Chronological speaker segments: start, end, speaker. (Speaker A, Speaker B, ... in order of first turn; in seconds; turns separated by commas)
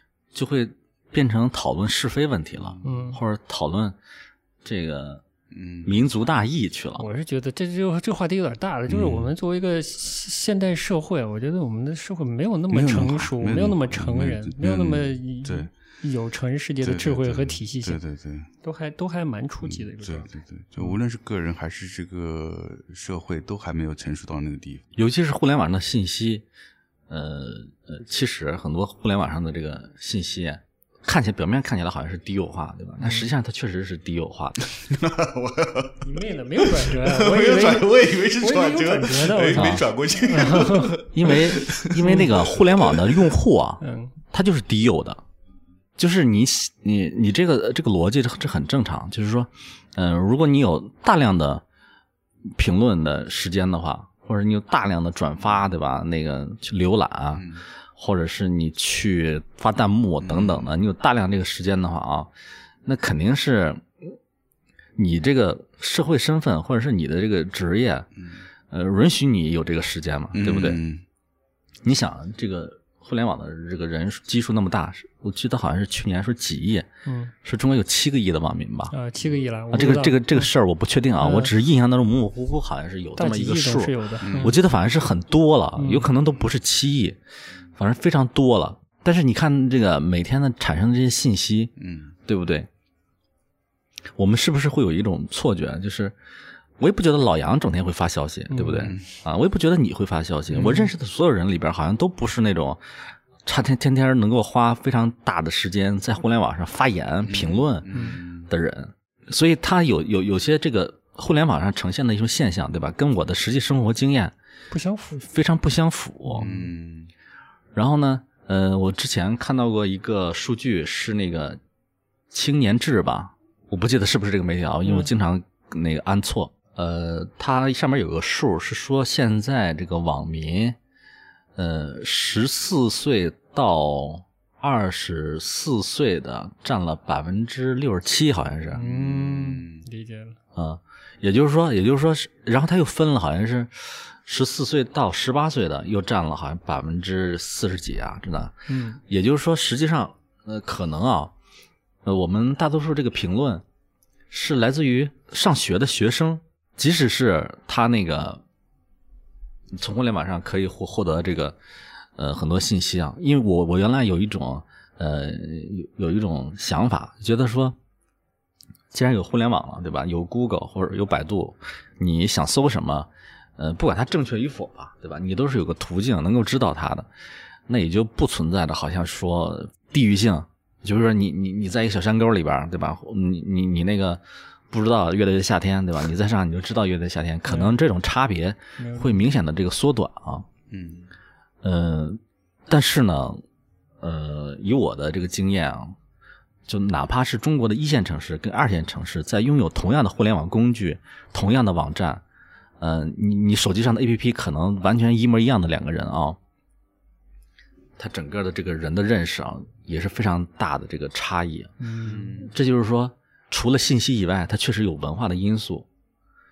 Speaker A: 0.3-4.0, Speaker B: 2.8-3.2, Speaker A: 4.6-5.2, Speaker C: 5.5-6.0, Speaker A: 5.8-7.1, Speaker B: 7.0-18.0, Speaker C: 8.9-9.3, Speaker C: 12.7-15.7, Speaker C: 16.8-18.5, Speaker B: 18.6-21.0, Speaker C: 19.6-24.8, Speaker A: 25.0-26.5, Speaker A: 27.1-34.6, Speaker B: 33.0-33.3, Speaker C: 34.6-43.3, Speaker B: 36.0-41.0, Speaker A: 39.5-39.9, Speaker A: 41.1-45.2, Speaker B: 42.0-42.3, Speaker B: 43.8-44.1, Speaker A: 46.0-51.6, Speaker A: 52.5-62.3, Speaker C: 57.3-57.6, Speaker C: 60.2-60.7, Speaker A: 62.9-63.9, Speaker A: 65.0-68.1, Speaker C: 68.2-68.4, Speaker A: 68.7-70.8, Speaker C: 70.3-71.0, Speaker A: 71.8-76.9, Speaker B: 77.1-77.3, Speaker A: 77.4-78.9, Speaker B: 78.9-80.5, Speaker A: 79.7-87.2, Speaker B: 81.2-81.5, Speaker B: 83.2-84.6, Speaker C: 84.2-84.6, Speaker B: 85.8-86.1, Speaker A: 87.8-91.7, Speaker C: 91.8-92.2, Speaker A: 92.3-92.7, Speaker A: 94.2-96.2, Speaker A: 96.8-102.8, Speaker B: 98.5-99.0, Speaker C: 98.8-99.1, Speaker B: 100.5-100.9, Speaker A: 103.4-107.9, Speaker C: 107.3-108.5, Speaker B: 107.9-108.2, Speaker A: 108.5-114.3, Speaker B: 114.7-115.3, Speaker A: 115.2-116.6, Speaker B: 116.3-116.7, Speaker C: 116.4-117.1, Speaker A: 117.8-121.6, Speaker A: 122.3-130.8, Speaker A: 131.6-138.8, Speaker B: 138.7-140.4, Speaker C: 138.7-139.9, Speaker A: 140.6-151.3, Speaker B: 148.7-149.0, Speaker A: 152.0-153.6, Speaker A: 154.3-158.4, Speaker A: 159.8-161.6, Speaker A: 162.2-167.8, Speaker A: 168.9-177.1, Speaker A: 177.7-190.5, Speaker B: 187.5-187.8, Speaker B: 188.8-189.2, Speaker C: 190.7-191.1, Speaker A: 191.6-193.4, Speaker A: 194.0-196.0, Speaker A: 196.7-202.2, Speaker A: 202.8-206.4, Speaker A: 208.0-211.7, Speaker B: 211.8-212.5, Speaker C: 212.1-212.5, Speaker A: 212.4-215.9